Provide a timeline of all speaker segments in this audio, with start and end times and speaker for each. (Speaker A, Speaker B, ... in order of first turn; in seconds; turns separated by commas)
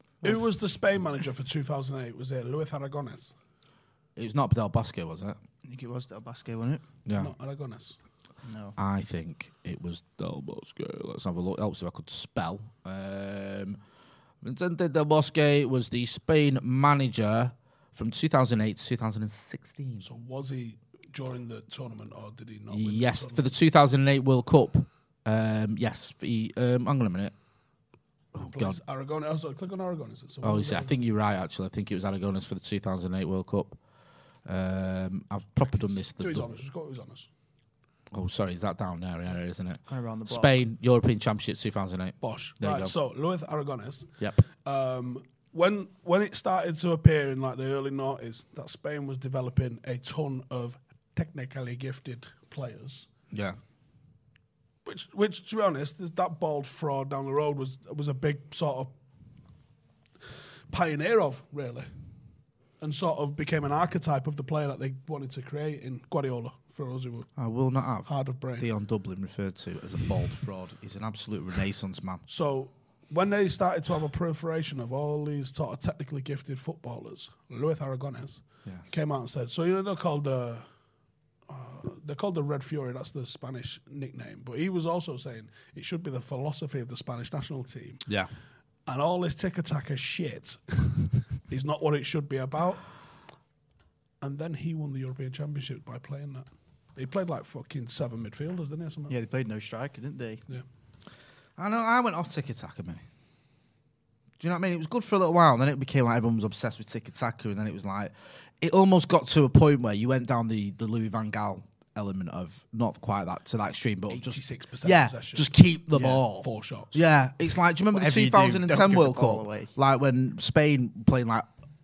Speaker A: 0.2-3.3, Speaker B: 4.2-5.4, Speaker C: 5.6-6.8, Speaker B: 7.1-7.3, Speaker A: 7.2-8.0, Speaker C: 8.4-8.8, Speaker B: 8.8-13.8, Speaker B: 14.4-20.1, Speaker A: 20.0-23.5, Speaker B: 22.7-27.3, Speaker B: 28.4-28.8, Speaker A: 28.4-31.0, Speaker B: 30.4-33.8, Speaker B: 34.5-36.6, Speaker A: 35.8-37.3, Speaker B: 38.1-42.9, Speaker C: 39.9-40.6, Speaker A: 42.2-53.1, Speaker B: 53.3-53.6, Speaker A: 54.9-58.9, Speaker A: 60.7-61.9, Speaker A: 62.8-67.3, Speaker B: 67.4-72.2, Speaker A: 68.1-68.7, Speaker A: 72.3-80.7, Speaker A: 81.5-88.1, Speaker A: 88.9-92.9, Speaker A: 94.2-99.1, Speaker C: 99.1-100.5, Speaker B: 101.6-103.0, Speaker B: 104.4-121.5, Speaker A: 114.1-117.0, Speaker C: 117.9-119.7